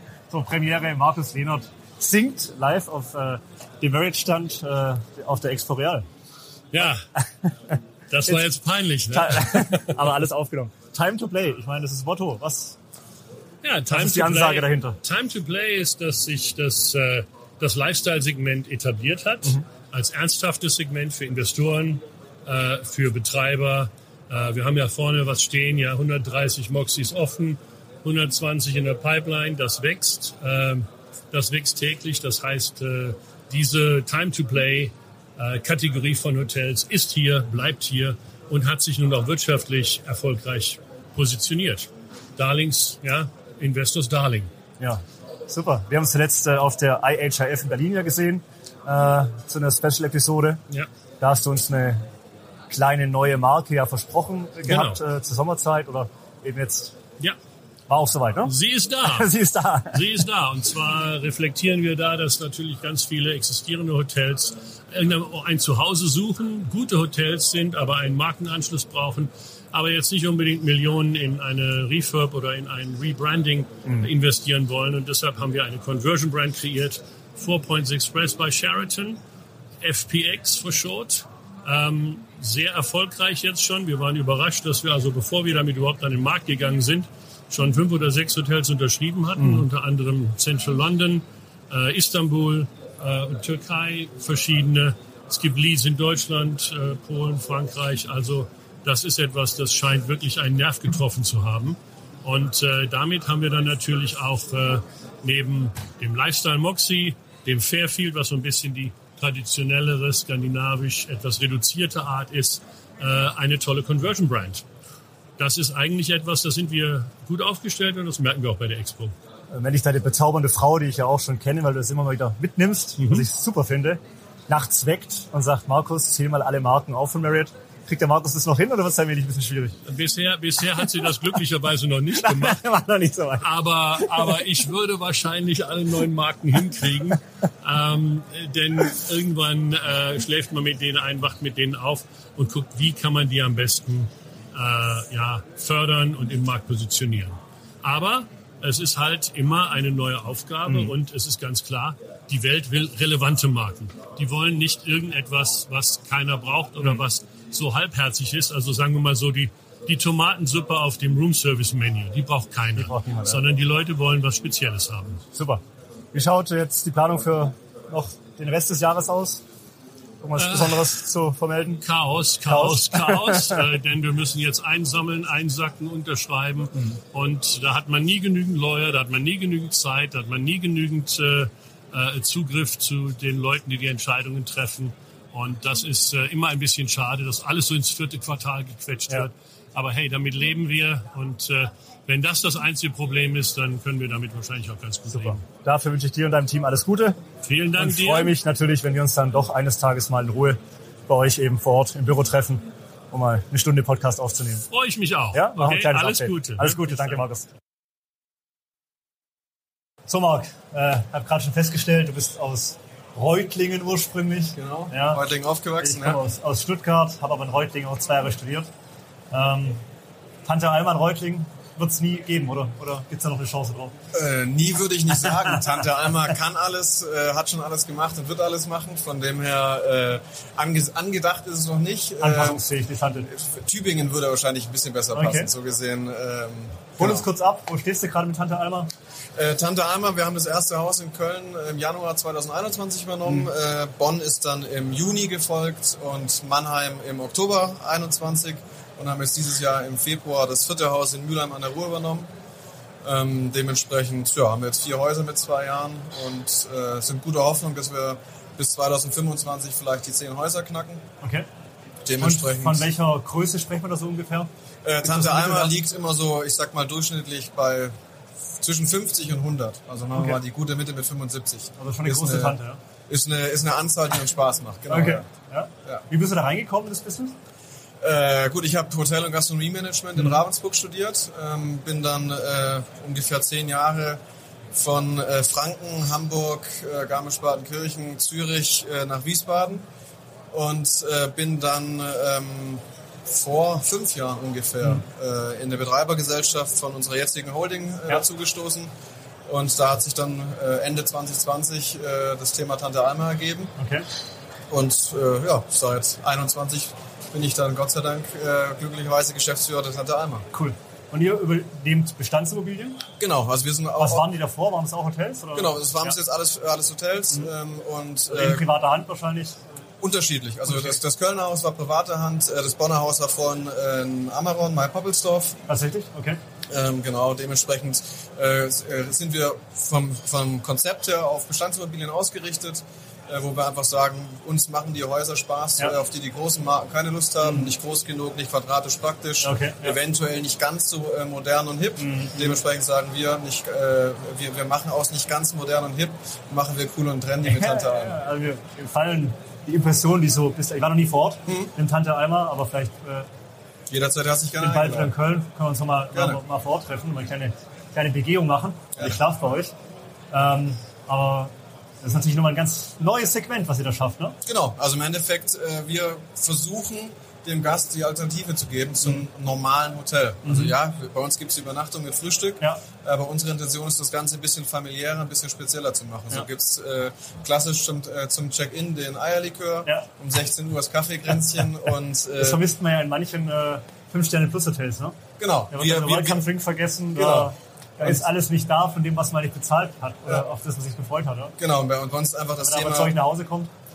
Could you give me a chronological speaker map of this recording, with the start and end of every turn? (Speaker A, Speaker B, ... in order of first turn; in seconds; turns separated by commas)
Speaker A: 0.3-6.1, Speaker B: 6.7-7.1, Speaker A: 7.4-7.7, Speaker B: 8.1-9.9, Speaker A: 9.1-12.8, Speaker B: 13.6-44.5, Speaker A: 13.9-15.0, Speaker A: 44.8-50.6, Speaker A: 51.2-52.0, Speaker A: 52.7-57.0, Speaker B: 54.7-55.0, Speaker A: 57.9-58.5, Speaker B: 58.4-59.3, Speaker A: 59.0-60.0, Speaker B: 59.9-79.2, Speaker B: 79.8-114.6, Speaker A: 89.4-89.7, Speaker B: 115.4-119.2, Speaker A: 119.5-129.8, Speaker B: 123.0-123.2, Speaker B: 129.9-132.7, Speaker A: 132.2-133.4, Speaker B: 133.4-165.2, Speaker A: 150.7-150.9, Speaker A: 162.8-163.4, Speaker A: 165.3-169.4, Speaker A: 170.2-171.8, Speaker B: 170.4-171.0, Speaker B: 171.8-195.4, Speaker A: 172.4-173.6, Speaker A: 195.1-197.2, Speaker B: 197.4-198.3, Speaker A: 197.8-204.7, Speaker B: 204.7-207.2, Speaker A: 205.3-207.5, Speaker A: 210.1-215.2, Speaker C: 214.6-216.2, Speaker A: 215.8-218.7, Speaker A: 219.3-219.8, Speaker A: 220.5-223.9, Speaker C: 224.1-237.3, Speaker A: 232.2-233.3, Speaker A: 235.2-235.5, Speaker A: 237.0-238.9, Speaker C: 239.4-252.3, Speaker C: 253.0-261.0, Speaker A: 261.2-261.5, Speaker C: 262.1-262.9, Speaker A: 262.2-264.5, Speaker C: 264.8-267.9, Speaker A: 265.0-265.8, Speaker C: 268.6-275.3, Speaker A: 270.1-270.4, Speaker A: 271.8-272.8, Speaker A: 274.9-277.4, Speaker C: 278.0-284.2, Speaker C: 284.7-289.9, Speaker C: 290.5-298.9, Speaker C: 299.5-303.7, Speaker A: 303.8-304.1, Speaker C: 304.7-310.5, Speaker A: 310.5-313.0, Speaker C: 313.2-314.3, Speaker A: 314.0-316.2, Speaker C: 315.5-318.7, Speaker A: 318.3-319.6, Speaker C: 320.0-325.6, Speaker A: 320.7-321.0, Speaker A: 325.7-326.4, Speaker C: 326.7-348.2, Speaker A: 337.4-337.7, Speaker A: 339.4-340.0, Speaker A: 342.0-342.6, Speaker A: 347.4-353.3, Speaker C: 351.5-351.7, Speaker C: 353.9-355.1, Speaker A: 354.6-359.7, Speaker C: 356.1-356.4, Speaker C: 359.0-359.2, Speaker A: 360.3-364.4, Speaker C: 364.4-382.6, Speaker A: 370.4-370.7, Speaker A: 382.4-385.2, Speaker C: 385.4-386.5, Speaker A: 385.7-391.5, Speaker C: 387.1-388.3, Speaker C: 391.6-393.2, Speaker A: 392.6-393.7